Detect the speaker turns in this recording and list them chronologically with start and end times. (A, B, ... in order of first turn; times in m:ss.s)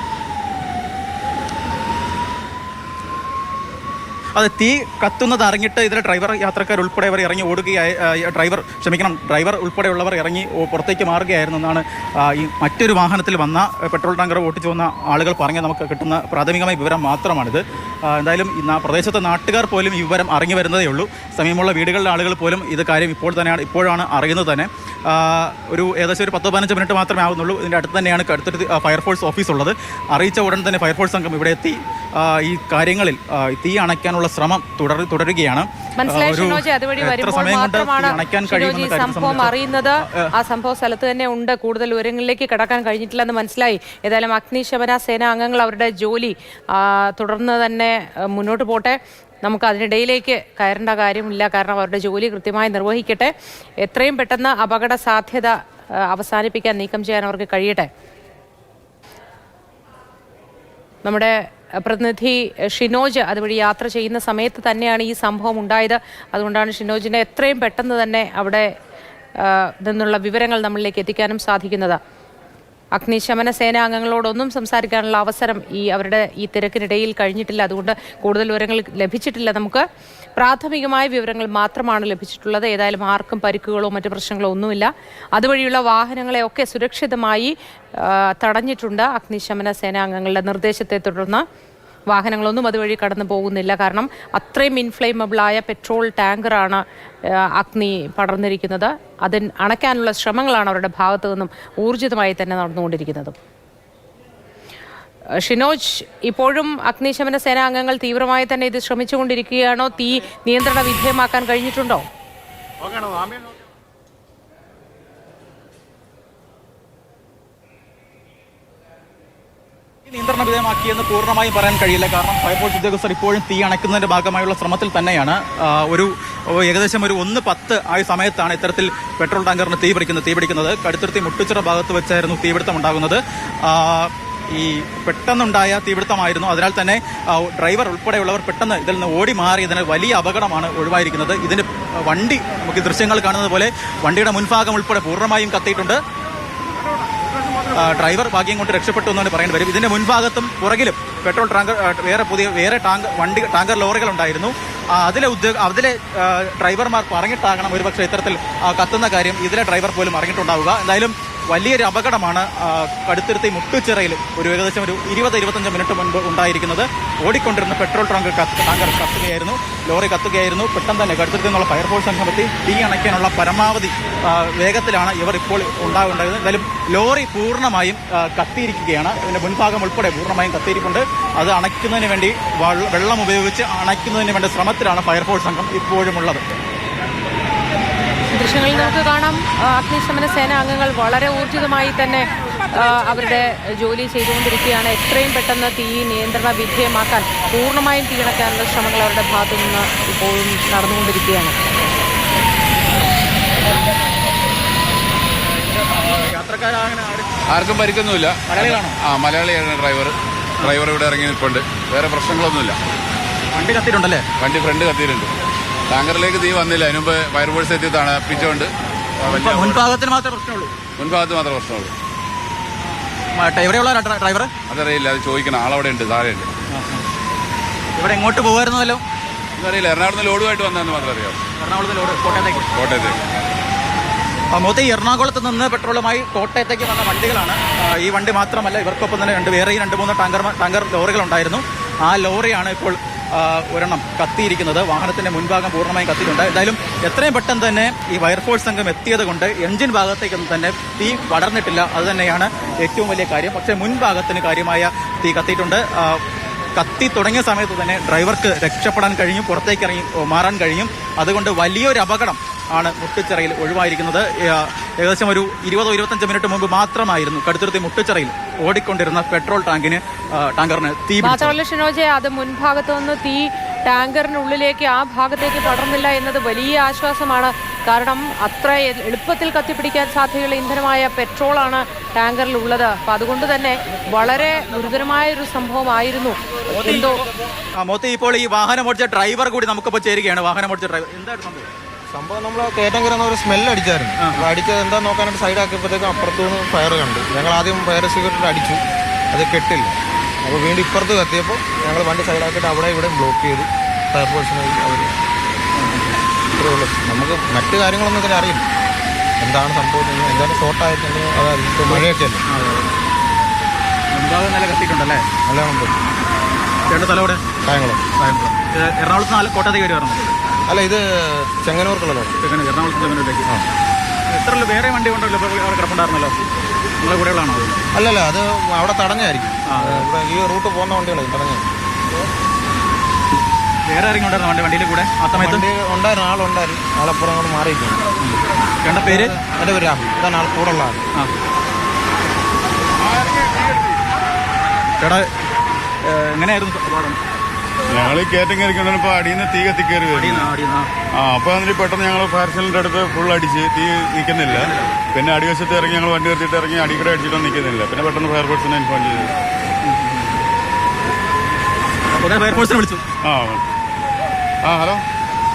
0:04.4-0:40.3 A
0:36.0-0:57.9 B
1:01.0-1:08.7 B
1:09.4-1:12.0 B
1:12.9-1:19.8 B
1:20.4-1:31.4 B
1:32.1-1:43.3 B
1:45.4-1:52.0 B
2:00.1-2:26.0 A
2:27.7-3:06.4 A
3:08.3-3:21.6 B
3:25.9-3:27.4 A
3:27.6-3:28.4 C
3:28.5-3:29.0 A
3:29.0-3:32.8 C
3:33.5-3:34.2 A
3:34.4-3:35.3 C
3:35.9-3:38.7 C
3:39.2-3:39.7 C
3:39.3-3:40.7 A
3:41.0-3:41.9 C
3:43.3-3:44.5 A
3:44.7-3:46.5 C
3:46.7-3:47.0 A
3:48.0-3:49.0 A
3:49.6-3:51.4 C
3:51.6-3:52.7 A
3:52.8-3:53.2 C
3:54.5-4:16.2 A
4:16.8-4:31.6 A
4:31.2-4:47.2 B
4:46.7-4:47.1 A
4:47.8-4:51.7 A
4:52.1-4:58.8 D
4:54.2-4:54.5 A
4:59.3-5:05.2 D
5:05.8-5:06.1 A
5:06.6-5:08.6 D
5:09.4-5:12.4 D
5:11.9-5:12.9 A
5:14.1-5:15.2 A
5:15.5-5:16.0 D
5:16.9-5:17.4 A
5:17.6-5:18.0 D
5:18.2-5:20.4 A
5:20.7-5:22.4 D
5:22.4-5:23.6 A
5:24.3-5:26.4 A
5:27.0-5:27.8 A
5:27.9-5:31.7 D
5:29.7-5:30.1 A
5:33.9-5:35.7 A
5:35.3-5:38.0 D
5:38.2-5:39.3 A
5:39.1-5:41.0 D
5:43.2-5:43.7 E
5:45.0-5:45.3 A
5:46.0-5:47.2 A
5:47.9-5:50.5 E
5:50.1-5:50.9 A
5:51.1-5:59.3 E
5:59.8-6:00.4 A
6:02.2-6:03.0 A
6:03.2-6:03.6 E
6:04.6-6:05.0 E